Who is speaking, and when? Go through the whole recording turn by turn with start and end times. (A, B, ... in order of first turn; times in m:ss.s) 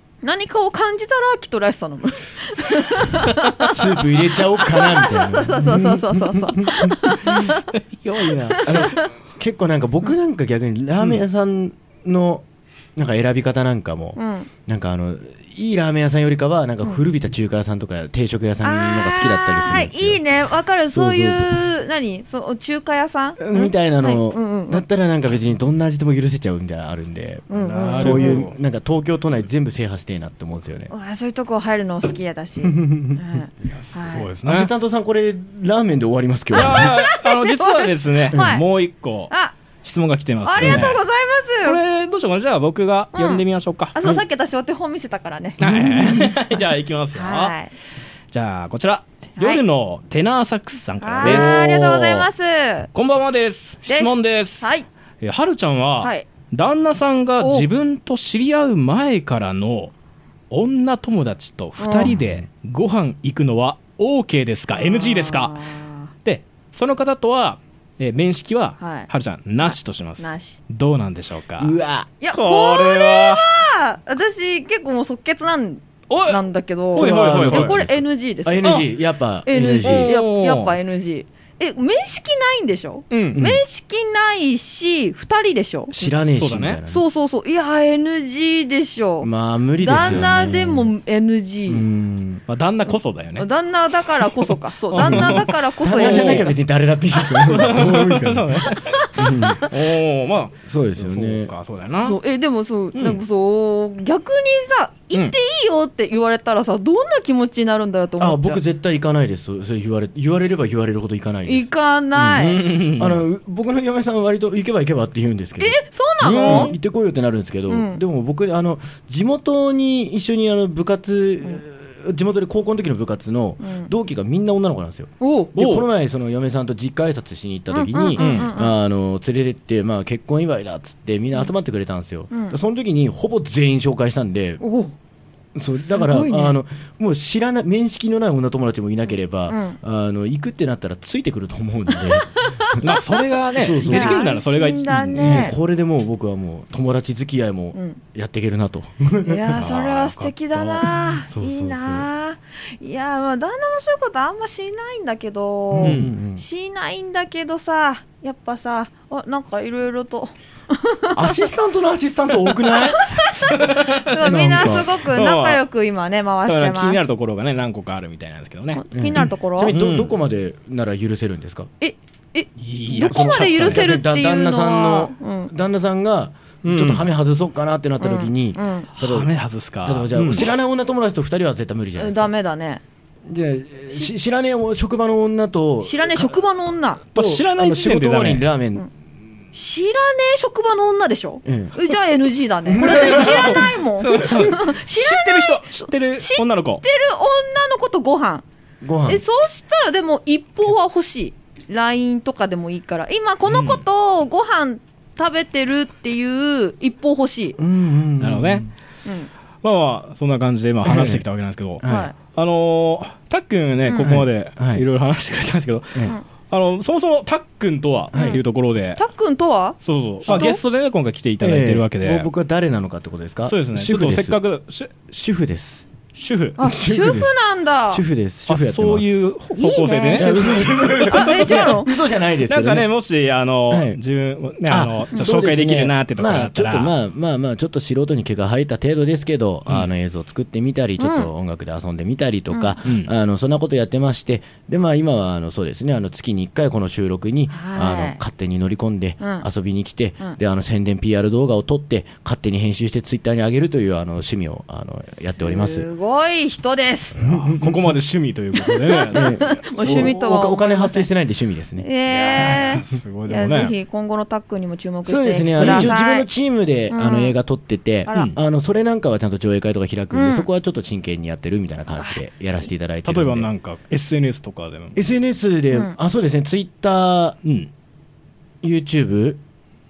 0:00.2-0:07.6 A
0:03.7-0:07.5 B
0:08.1-0:08.6 C
0:08.2-0:09.1 A
0:08.2-0:12.4 B
0:13.0-0:20.2 B
0:14.2-0:14.5 A
0:18.6-0:24.9 A
0:20.9-0:21.5 B
0:23.4-0:30.9 B
0:27.5-0:28.5 A
0:27.6-0:28.6 C
0:30.9-0:34.3 A
0:32.6-0:33.2 B
0:33.7-0:34.7 C
0:34.4-0:36.9 B
0:36.5-0:38.6 A
0:36.5-0:39.3 C
0:39.3-0:39.6 A
0:39.8-0:41.0 C
0:40.5-0:41.8 A
0:40.6-0:40.9 B
0:41.6-0:44.0 C
0:43.2-0:43.4 A
0:44.0-0:46.1 A
0:45.6-0:47.6 C
0:45.6-0:46.2 B
0:47.2-0:47.7 A
0:48.3-0:52.3 C
0:51.0-0:52.9 A
0:51.2-0:51.7 B
0:53.0-0:59.9 C
0:53.9-0:54.8 A
0:56.0-0:56.3 A
0:57.4-0:57.7 A
1:00.5-1:05.6 C
1:01.8-1:02.1 A
1:02.1-1:02.4 B
1:04.8-1:06.1 A
1:06.2-1:11.8 C
1:08.8-1:09.1 A
1:09.6-1:10.6 A
1:11.6-1:12.1 B
1:12.2-1:18.9 A
1:12.3-1:13.5 C
1:16.1-1:16.4 C
1:16.9-1:17.8 C
1:16.9-1:20.2 B
1:19.5-1:26.1 A
1:19.8-1:20.8 C
1:23.1-1:23.5 C
1:25.9-1:27.0 B
1:26.3-1:26.8 C
1:26.9-1:31.8 A
1:29.2-1:30.9 B
1:29.9-1:30.5 C
1:31.7-1:32.4 B
1:32.5-1:33.5 C
1:33.4-1:36.5 A
1:34.4-1:36.5 C
1:35.0-1:39.7 B
1:37.3-1:37.8 A
1:37.5-1:39.0 C
1:39.0-1:39.6 A
1:39.6-1:42.2 C
1:40.7-1:41.5 B
1:42.0-1:48.6 A
1:43.0-1:43.2 C
1:48.2-1:51.7 B
1:51.5-1:52.7 A
1:52.2-1:53.2 C
1:52.9-1:55.8 B
1:55.6-1:56.8 A
1:56.2-1:56.7 C
1:56.4-2:14.6 B
1:57.7-1:58.0 A
2:03.6-2:03.9 A
2:05.2-2:05.5 A
2:05.6-2:05.9 C
2:07.7-2:08.8 A
2:08.2-2:08.5 C
2:12.3-2:12.6 A
2:14.6-2:14.9 A
2:15.6-2:22.3 B
2:15.8-2:16.6 A
2:19.5-2:19.8 A
2:22.0-2:22.9 A
2:22.8-2:25.5 C
2:23.6-2:24.3 B
2:23.8-2:25.6 A
2:25.1-2:29.7 B
2:27.7-2:28.0 A
2:29.3-2:41.4 A
2:29.5-2:30.8 C
2:31.4-2:32.1 B
2:35.7-2:36.4 B
2:35.8-2:36.1 C
2:41.1-2:43.1 B
2:42.6-2:47.1 A
2:43.6-2:45.6 C
2:44.2-2:45.0 B
2:46.5-2:50.2 C
2:48.7-2:49.8 A
2:48.9-2:51.7 B
2:51.8-2:55.5 A
2:52.6-2:53.9 C
2:53.0-2:59.3 B
2:56.6-2:57.1 C
2:58.0-2:58.9 A
2:59.0-3:00.5 C
2:59.8-3:02.3 B
3:02.0-3:02.8 A
3:03.3-3:06.3 B
3:05.8-3:07.0 A
3:07.2-3:08.5 C
3:07.2-3:08.9 B
3:09.5-3:18.4 A
3:11.5-3:11.7 B
3:12.7-3:13.7 B
3:12.8-3:16.8 C
3:18.8-3:19.2 B
3:19.1-3:27.6 A
3:23.5-3:23.8 C
3:27.6-3:28.7 B
3:28.2-3:28.6 C
3:29.0-3:29.3 A
3:29.6-3:39.0 C
3:30.8-3:31.2 B
3:31.8-3:32.1 B
3:31.8-3:32.1 A
3:33.9-3:34.2 A
3:34.0-3:34.8 B
3:38.1-3:38.4 B
3:38.1-3:38.4 A
3:39.0-3:40.6 A
3:39.8-3:42.3 C
3:40.3-3:40.5 B
3:41.4-3:44.4 B
3:43.5-3:45.0 C
3:45.1-3:45.9 B
3:46.2-3:46.6 C
3:46.6-3:48.0 A
3:46.6-3:47.3 B
3:47.9-3:49.1 B
3:48.5-3:51.8 C
3:49.6-3:50.6 A
3:50.1-3:52.9 B
3:51.1-3:51.9 A
3:52.5-3:56.9 C
3:53.7-3:54.0 B
3:54.7-4:15.9 B
4:01.0-4:01.3 A
4:02.5-4:02.8 A
4:02.8-4:03.1 C
4:07.5-4:08.2 A
4:09.2-4:09.5 A
4:15.4-4:17.2 A
4:17.2-4:20.1 C
4:17.2-4:18.0 B
4:18.7-4:21.1 A
4:19.1-4:21.9 B
4:21.8-4:26.3 A
4:22.1-4:23.7 C
4:25.0-4:33.5 B
4:25.6-4:25.9 C
4:26.9-4:27.4 A
4:28.1-4:28.4 A
4:28.1-4:28.4 C
4:30.1-4:30.5 A
4:33.0-4:35.0 C
4:35.0-4:37.4 B
4:37.4-4:37.7 C
4:38.6-4:39.4 B